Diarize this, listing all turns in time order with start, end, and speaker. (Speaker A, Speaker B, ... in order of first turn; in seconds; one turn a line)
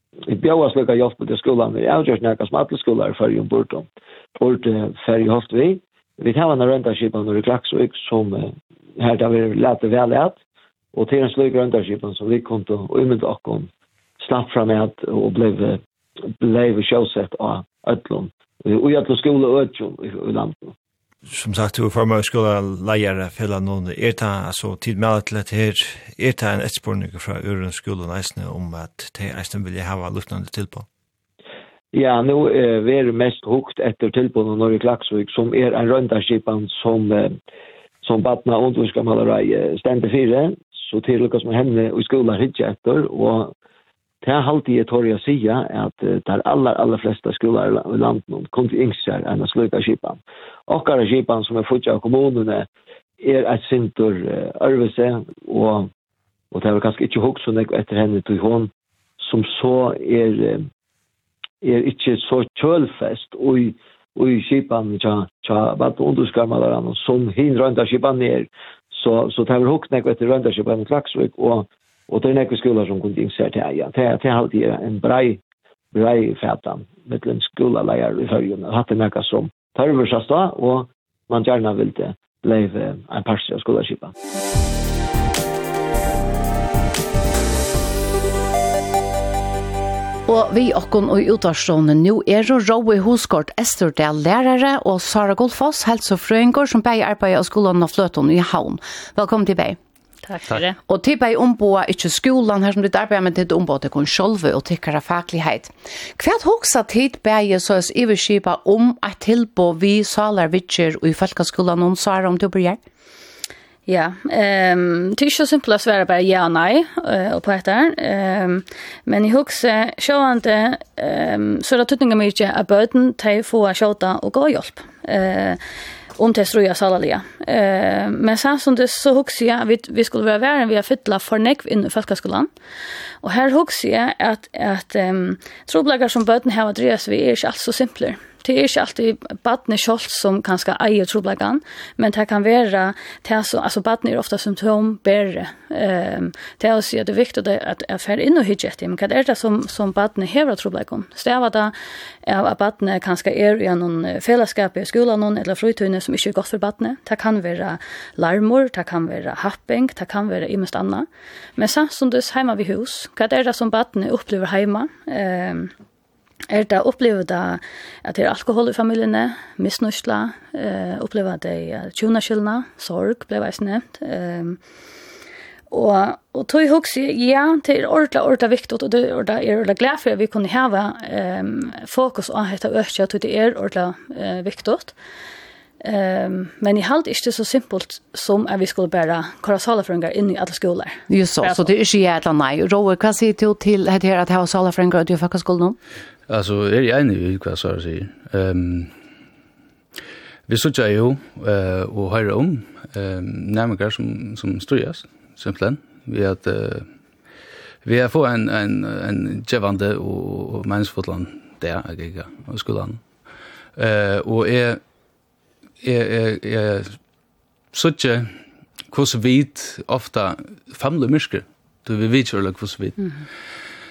Speaker A: 0.3-3.9
Speaker A: 4.4-10.4
Speaker A: 10.9-13.7
Speaker A: 14.2-15.8
Speaker A: 16.4-20.7
Speaker B: 21.3-30.9
Speaker A: 31.9-37.4
Speaker A: 38.0-43.5
Speaker A: 44.2-52.7
Speaker A: 53.2-55.9
Speaker A: 56.5-60.7
Speaker A: 61.6-75.4
Speaker A: 75.9-84.1
Speaker C: 90.3-99.8
Speaker D: 100.3-100.8
Speaker C: 100.9-112.8
Speaker D: 113.9-125.6
Speaker D: 126.2-132.5
Speaker D: 133.2-151.7
Speaker D: 152.2-161.1
Speaker D: 161.6-165.7
Speaker D: 166.5-174.6
Speaker D: 175.7-184.9
Speaker D: 185.8-191.7
Speaker C: 191.1-195.8
Speaker E: 196.3-198.9
Speaker E: 200.5-206.9
Speaker E: 207.8-213.1
Speaker E: 213.8-214.8
Speaker E: 215.8-217.0
Speaker E: 217.7-218.4
Speaker E: 218.9-223.3